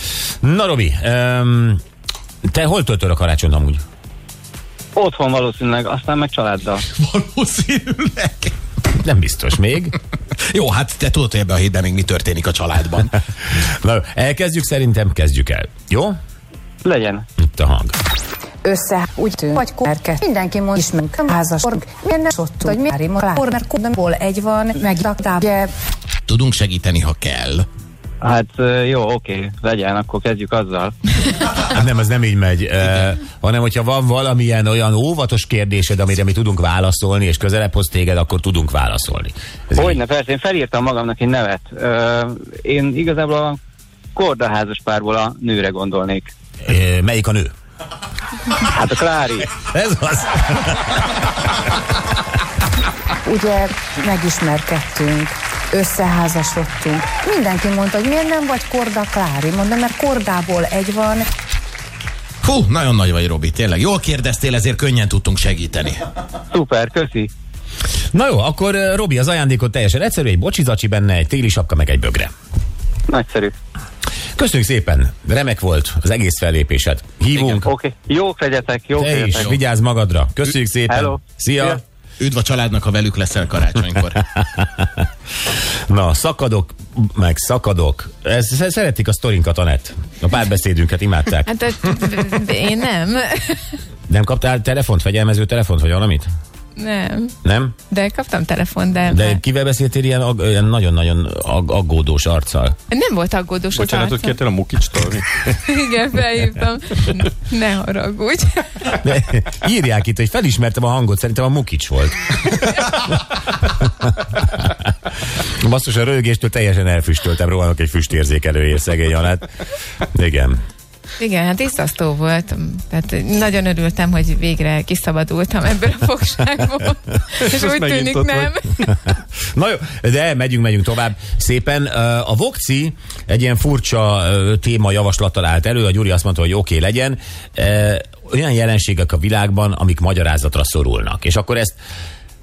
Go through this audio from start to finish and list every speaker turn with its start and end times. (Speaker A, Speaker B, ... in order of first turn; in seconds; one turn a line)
Speaker A: 0.4-1.8
Speaker A: 2.5-3.8
Speaker B: 5.0-6.8
Speaker C: 6.8-8.5
Speaker A: 8.9-9.9
Speaker C: 10.4-13.1
Speaker A: 13.5-16.1
Speaker B: 16.8-17.2
Speaker A: 17.4-17.9
Speaker D: 18.6-25.7
Speaker C: 26.3-27.6
Speaker B: 28.2-30.9
Speaker A: 31.5-40.0
Speaker B: 39.8-43.6
Speaker B: 44.1-46.3
Speaker A: 46.6-47.5
Speaker B: 48.6-49.5
Speaker A: 49.5-51.4
Speaker D: 53.2-61.2
Speaker C: 62.4-66.0
Speaker B: 66.5-67.3
Speaker A: 68.1-72.3
Speaker B: 73.1-73.5
Speaker A: 74.3-77.7
Speaker B: 77.7-79.6
Speaker A: 79.0-81.8
Speaker B: 80.9-81.8
Speaker C: 82.2-84.2
Speaker A: 84.3-85.1
Speaker A: 85.9-91.5
Speaker E: 91.5-93.8
Speaker A: 94.1-96.3
Speaker E: 96.8-97.3
Speaker A: 97.4-97.8
Speaker E: 97.9-99.4
Speaker A: 99.1-102.8
Speaker E: 102.9-104.4
Speaker F: 103.8-105.5
Speaker E: 105.5-108.9
Speaker A: 108.9-119.5
Speaker A: 120.0-120.6
Speaker E: 121.2-128.8
Speaker F: 127.4-128.9
Speaker A: 128.9-141.8